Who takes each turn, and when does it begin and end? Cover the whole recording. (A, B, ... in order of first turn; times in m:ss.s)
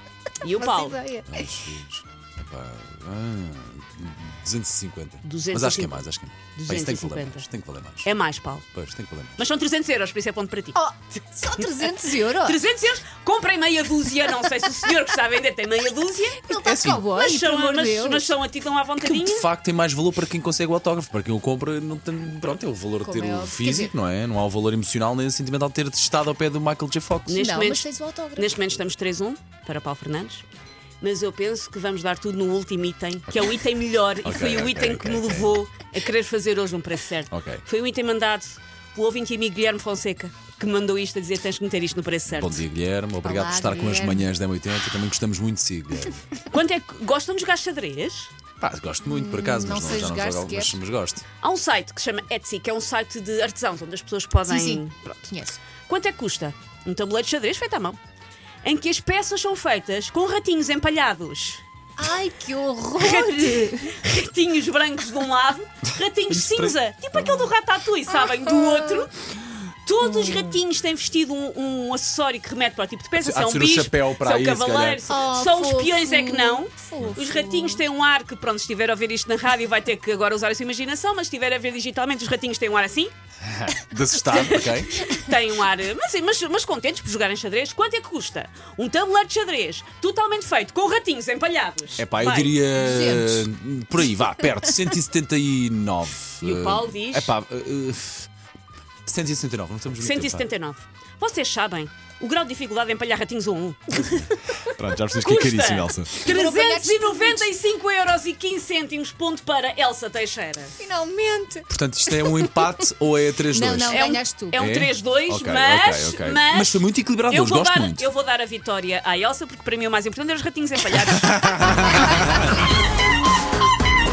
0:00.4-0:01.0 A
0:00.5-0:01.5 B
0:01.2-0:08.1 C
0:05.2-0:07.5 A
0:08.0-0:08.6 A
0:08.7-0:09.4 C
0:09.4-0:10.8 A
0:10.7-0:12.6 B
0:11.6-0:16.6 A
0:16.5-0:18.3 B
0:16.5-0:17.0 C
0:17.1-0:19.5 A
0:19.0-0:27.4 C
0:23.0-0:23.9 B
0:27.3-0:30.4 A
0:27.3-0:28.6 B
0:31.0-0:42.6 A
0:34.2-0:35.5 C
0:37.3-0:37.6 C
0:42.3-0:46.2 C
0:43.2-0:44.3 B
0:46.5-0:48.3 A
0:48.6-0:51.2 C
0:49.0-0:50.8 B
0:51.4-0:55.4 A
0:54.4-0:55.6 B
0:55.9-0:58.0 A
0:58.6-1:01.6 A
1:02.0-1:03.9 B
1:03.0-1:09.1 A
1:06.3-1:07.5 C
1:08.1-1:09.1 B
1:09.8-1:23.1 A
1:10.0-1:10.6 B
1:13.2-1:15.0 C
1:15.1-1:17.8 B
1:23.4-1:25.0 C
1:24.2-1:32.6 A
1:32.0-1:38.3 C
1:32.8-1:33.4 B
1:36.4-1:37.3 A
1:39.0-1:40.5 C
1:40.0-1:44.6 A
1:44.6-1:46.2 C
1:45.2-1:50.8 A
1:46.2-1:47.4 B
1:50.8-1:52.8 B
1:51.7-1:54.0 C
1:53.5-1:54.6 B
1:53.9-2:02.2 A
1:54.5-1:58.0 C
2:01.7-2:02.2 C